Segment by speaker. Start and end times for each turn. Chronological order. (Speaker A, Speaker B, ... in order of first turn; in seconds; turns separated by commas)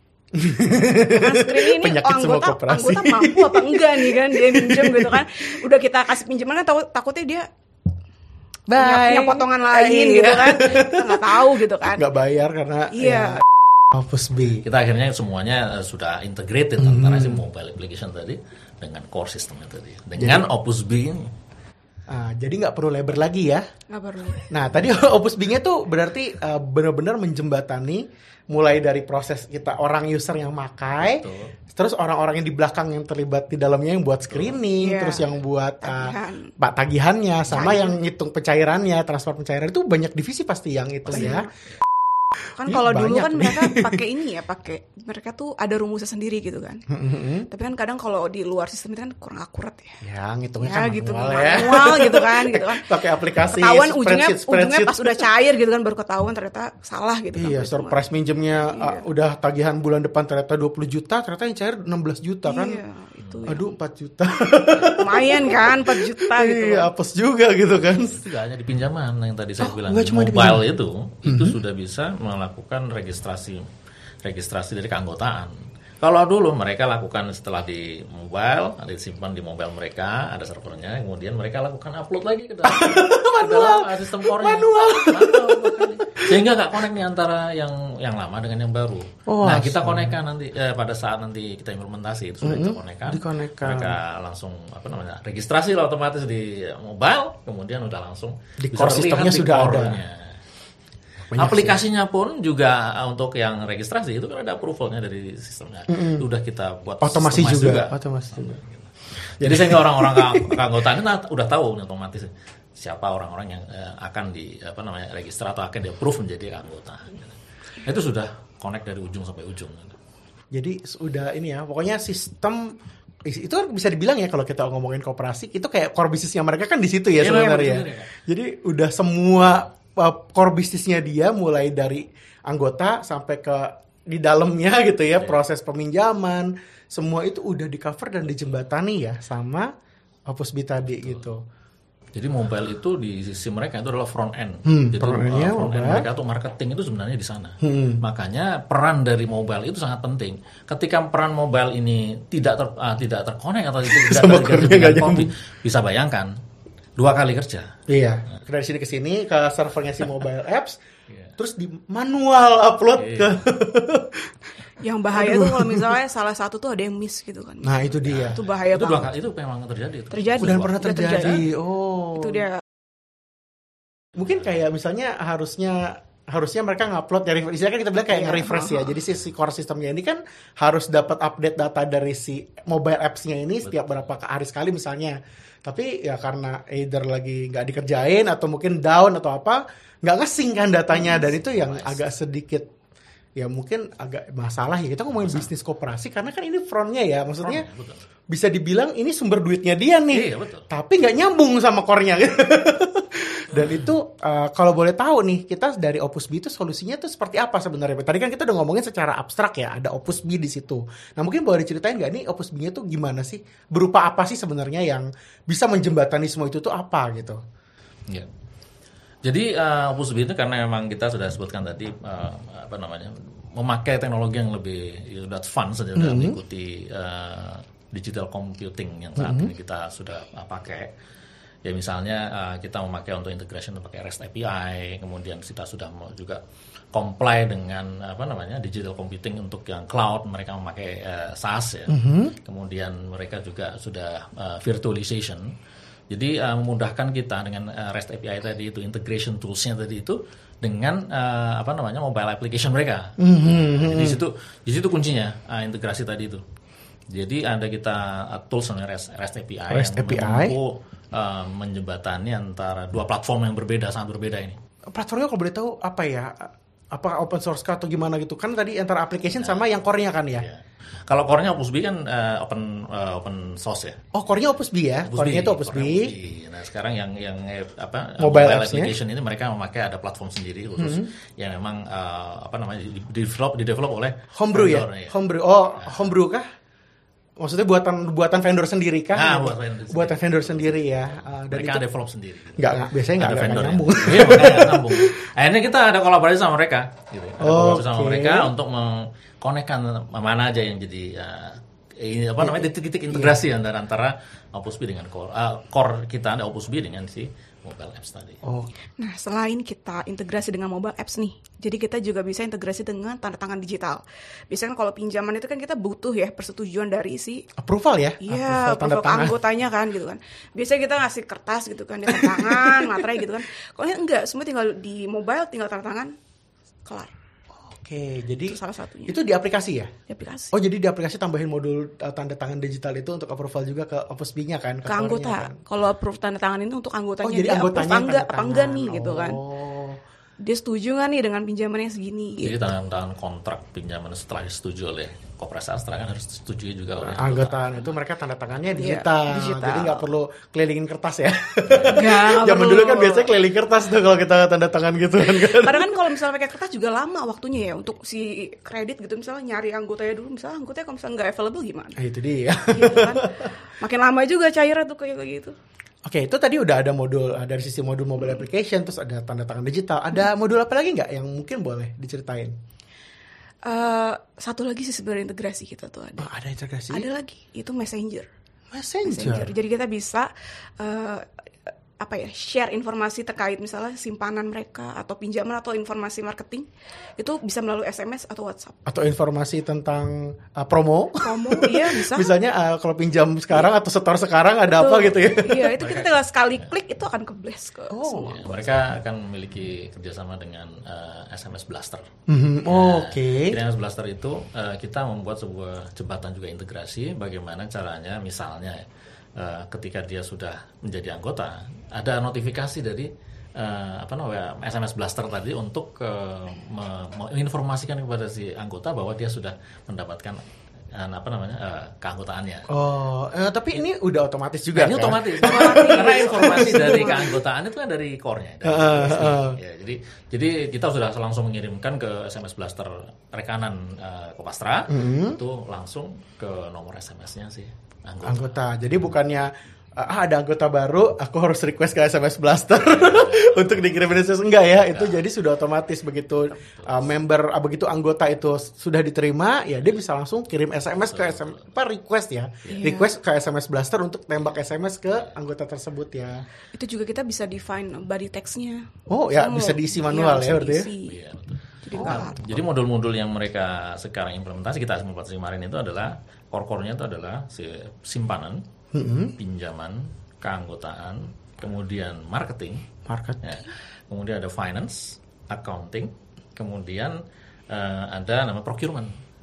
Speaker A: 0.3-5.5, Speaker B: 1.0-7.5, Speaker A: 8.7-14.6, Speaker B: 8.8-12.1, Speaker B: 12.9-13.4, Speaker C: 14.6-21.3, Speaker A: 16.8-17.4, Speaker A: 20.2-20.5, Speaker A: 22.1-23.6, Speaker B: 23.9-24.5, Speaker A: 24.5-41.5, Speaker C: 30.9-31.5, Speaker C: 34.3-34.6, Speaker B: 34.8-35.3, Speaker B: 35.8-36.5, Speaker B: 37.5-38.0, Speaker B: 41.1-41.5, Speaker B: 42.5-46.8, Speaker A: 42.7-44.0, Speaker A: 46.9-47.5, Speaker B: 47.5-50.0, Speaker A: 50.0-55.2, Speaker B: 50.6-52.9, Speaker B: 53.5-58.0, Speaker A: 57.4-62.8, Speaker B: 58.7-59.0, Speaker B: 62.5-63.7, Speaker C: 63.2-63.5, Speaker A: 63.5-68.2, Speaker B: 64.9-66.9, Speaker C: 67.8-73.7, Speaker A: 69.6-70.7, Speaker A: 71.2-71.6, Speaker C: 74.2-100.4, Speaker A: 82.6-86.4, Speaker A: 89.3-90.2, Speaker A: 92.4-94.0, Speaker A: 98.6-100.0, Speaker A: 101.3-101.8, Speaker C: 101.3-120.0, Speaker A: 105.9-106.2, Speaker A: 107.0-108.6, Speaker A: 109.4-110.6, Speaker A: 120.5-139.7, Speaker C: 127.2-128.1, Speaker A: 140.3-141.4, Speaker C: 140.9-141.2, Speaker C: 142.1-156.3, Speaker A: 144.7-146.1, Speaker A: 147.6-148.0, Speaker A: 153.8-155.3, Speaker C: 157.0-157.8, Speaker A: 157.9-160.8, Speaker A: 161.4-164.3, Speaker C: 163.0-163.5, Speaker B: 164.8-169.1, Speaker A: 165.1-165.9, Speaker A: 167.6-168.4, Speaker C: 168.0-171.3, Speaker B: 170.1-171.5, Speaker A: 170.4-172.5, Speaker B: 172.1-172.6, Speaker A: 174.1-192.7, Speaker B: 178.1-178.9, Speaker C: 183.6-184.1, Speaker C: 191.2-192.0, Speaker A: 193.4-197.7, Speaker C: 195.2-195.5, Speaker C: 197.4-198.0, Speaker A: 198.3-217.4, Speaker C: 200.1-200.7, Speaker C: 203.5-203.8, Speaker C: 219.2-230.9, Speaker A: 225.9-226.4, Speaker A: 229.2-229.5, Speaker C: 231.6-236.4, Speaker C: 236.9-245.5, Speaker A: 241.9-242.3, Speaker C: 246.1-256.4, Speaker A: 253.2-254.2, Speaker C: 257.1-264.6, Speaker A: 259.7-260.6, Speaker A: 264.9-270.5, Speaker C: 269.4-269.7, Speaker C: 270.3-274.0, Speaker A: 274.1-276.1, Speaker C: 275.1-285.1, Speaker A: 278.2-278.9, Speaker A: 280.8-281.1, Speaker A: 284.3-286.4, Speaker A: 287.4-291.8, Speaker C: 289.1-308.4, Speaker A: 292.6-295.1, Speaker A: 297.4-298.5, Speaker A: 302.4-303.4, Speaker A: 308.4-308.7, Speaker B: 309.0-317.4, Speaker A: 317.6-319.4, Speaker B: 318.2-326.1, Speaker A: 322.1-323.1, Speaker B: 326.8-327.1, Speaker A: 327.5-329.9, Speaker B: 328.5-329.2, Speaker B: 330.1-330.5, Speaker A: 330.5-335.6, Speaker B: 334.9-339.4, Speaker A: 337.2-340.0, Speaker B: 340.4-342.6, Speaker C: 342.4-347.9, Speaker A: 347.0-355.9, Speaker B: 348.7-350.1, Speaker C: 351.7-352.0, Speaker B: 351.9-353.3, Speaker B: 355.2-362.0, Speaker A: 362.0-363.5, Speaker B: 362.7-365.6, Speaker A: 366.1-372.5, Speaker B: 373.6-376.3, Speaker A: 376.2-377.1, Speaker B: 376.9-378.3, Speaker A: 378.7-379.5, Speaker B: 379.0-388.8, Speaker A: 388.9-395.7, Speaker B: 391.2-392.3, Speaker B: 394.7-398.7, Speaker C: 395.8-396.6, Speaker A: 397.9-398.5, Speaker C: 398.1-402.1, Speaker A: 402.3-403.6, Speaker C: 402.7-408.8, Speaker C: 409.4-420.4, Speaker C: 420.9-422.7, Speaker A: 422.7-427.3, Speaker C: 424.7-438.5, Speaker B: 425.4-427.3, Speaker A: 428.6-429.6, Speaker A: 434.9-435.4, Speaker A: 438.2-456.4, Speaker C: 442.8-445.2, Speaker C: 446.5-447.1, Speaker C: 451.0-451.7, Speaker B: 452.7-453.1, Speaker B: 456.7-461.2, Speaker A: 459.1-460.9, Speaker C: 461.0-468.6, Speaker B: 461.8-462.6, Speaker A: 461.9-462.4, Speaker A: 468.9-469.3, Speaker C: 469.4-472.8, Speaker A: 473.1-473.4, Speaker C: 473.4-477.2, Speaker C: 477.7-479.1